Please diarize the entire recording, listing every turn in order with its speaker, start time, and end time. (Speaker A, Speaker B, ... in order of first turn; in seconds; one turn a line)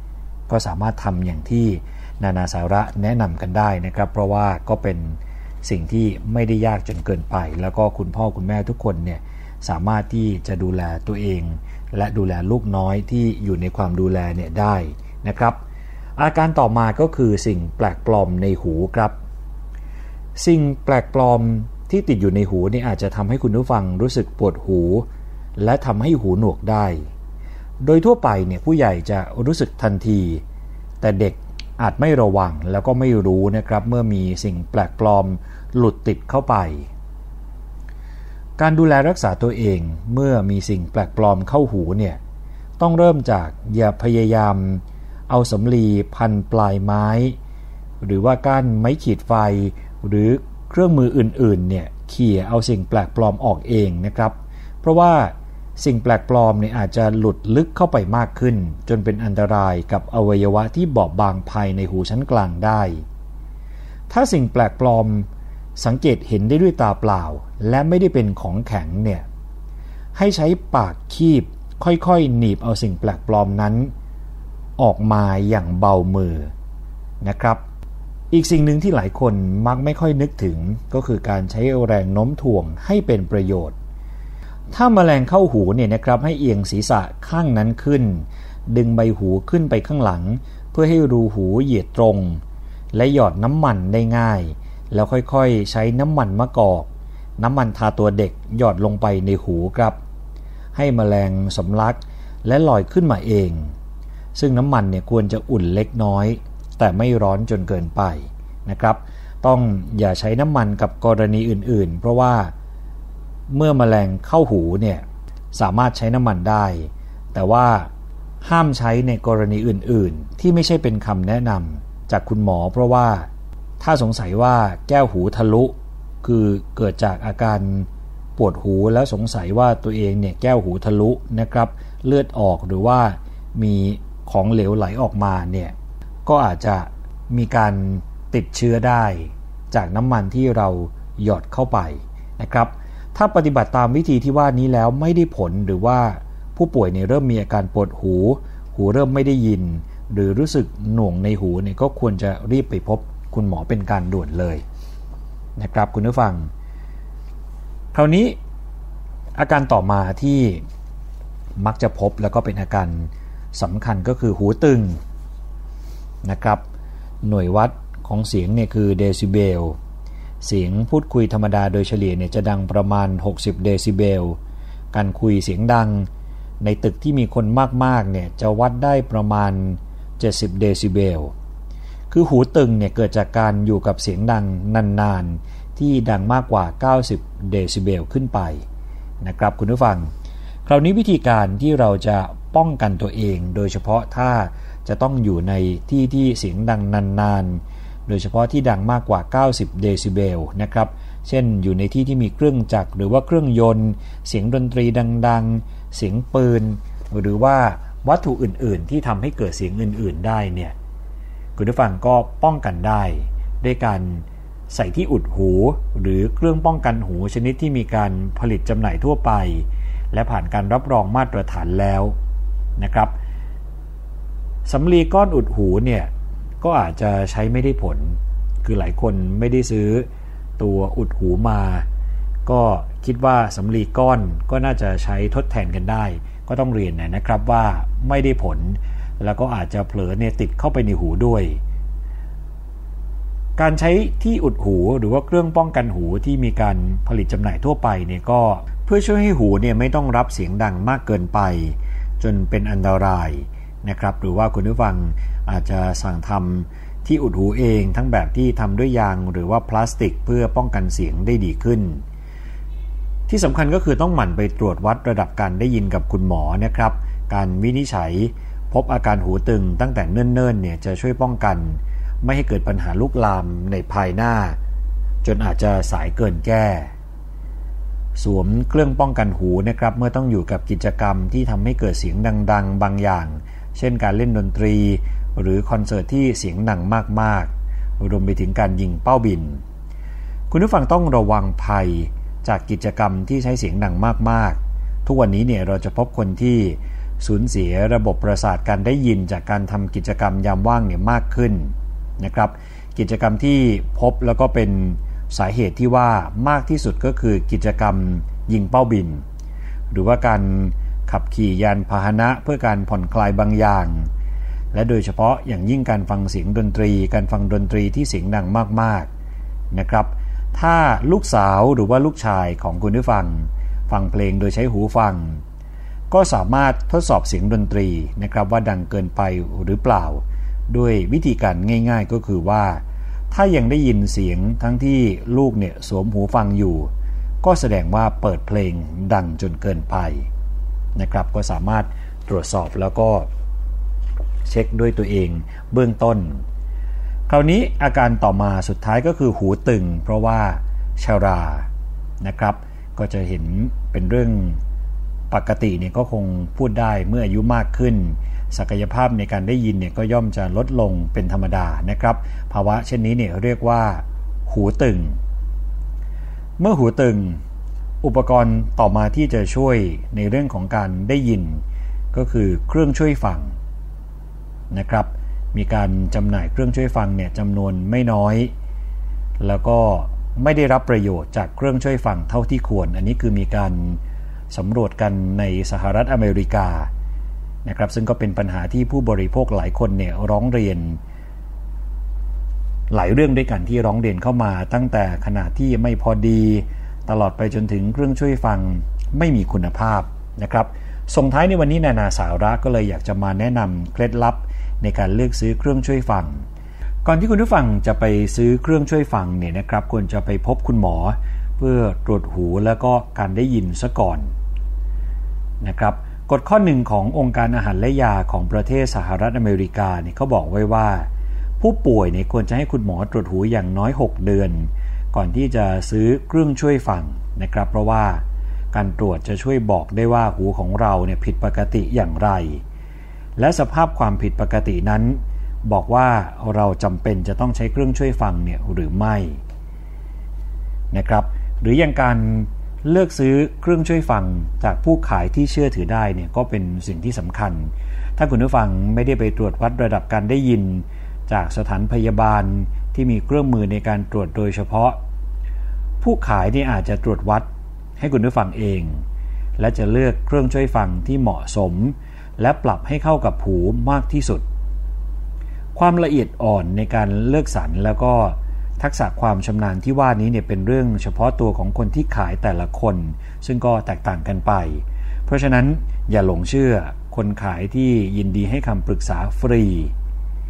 Speaker A: 0.5-15.6
Speaker A: 16.2-19.2
Speaker A: 20.4-27.1
Speaker A: 27.8-30.4
Speaker A: 31.0-36.9
Speaker A: 38.6-42.2
Speaker A: 42.8-47.4
Speaker A: 48.0-63.0
Speaker A: 64.1-65.3
Speaker A: 65.8-69.3
Speaker A: 70.1-73.9
Speaker A: 74.8-76.5
Speaker A: 77.2-77.6
Speaker A: 78.3-83.8
Speaker A: 84.7-92.4
Speaker A: 92.9-100.0
Speaker A: 100.7-103.7
Speaker A: 104.3-112.5
Speaker A: 113.5-117.9
Speaker A: 118.4-123.3
Speaker A: 123.8-135.7
Speaker A: 136.3-154.6
Speaker A: 155.6-156.5
Speaker A: 157.9-158.4
Speaker A: 159.4-160.6
Speaker A: 161.6-165.0
Speaker A: 166.2-166.6
Speaker A: 167.2-169.8
Speaker A: 170.4-174.4
Speaker A: 174.9-176.1
Speaker A: 176.6-181.3
Speaker A: 182.1-188.6
Speaker A: 189.2-190.1
Speaker A: 190.7-210.7
Speaker A: 211.6-222.2
Speaker A: 222.8-223.1
Speaker A: 224.7-226.1
Speaker A: 226.6-231.9
Speaker A: 232.4-241.6
Speaker A: 243.6-262.0
Speaker A: 263.3-274.6
Speaker A: 275.2-276.9
Speaker A: 278.2-289.6
Speaker A: 290.5-309.2
Speaker A: 309.9-314.1
Speaker A: 314.7-319.1
Speaker A: 319.7-325.4
Speaker A: 326.1-336.9
Speaker A: 337.4-340.3
Speaker A: 340.9-343.3
Speaker A: 344.4-346.4
Speaker A: 347.3-351.7
Speaker A: 352.2-354.6
Speaker A: 355.3-365.2
Speaker A: 366.6-367.4
Speaker A: 368.0-371.6
Speaker A: 372.1-373.5
Speaker A: 374.7-378.5
Speaker A: 379.4-384.0
Speaker A: 384.5-386.9
Speaker A: 387.6-391.0
Speaker A: 392.9-406.4
Speaker A: 407.1-414.3
Speaker A: 415.6-421.1
Speaker A: 421.6-432.6
Speaker A: 433.4-439.4
Speaker A: 440.9-455.0
Speaker A: 456.0-459.0
Speaker A: 459.6-464.4
Speaker A: 465.7-479.9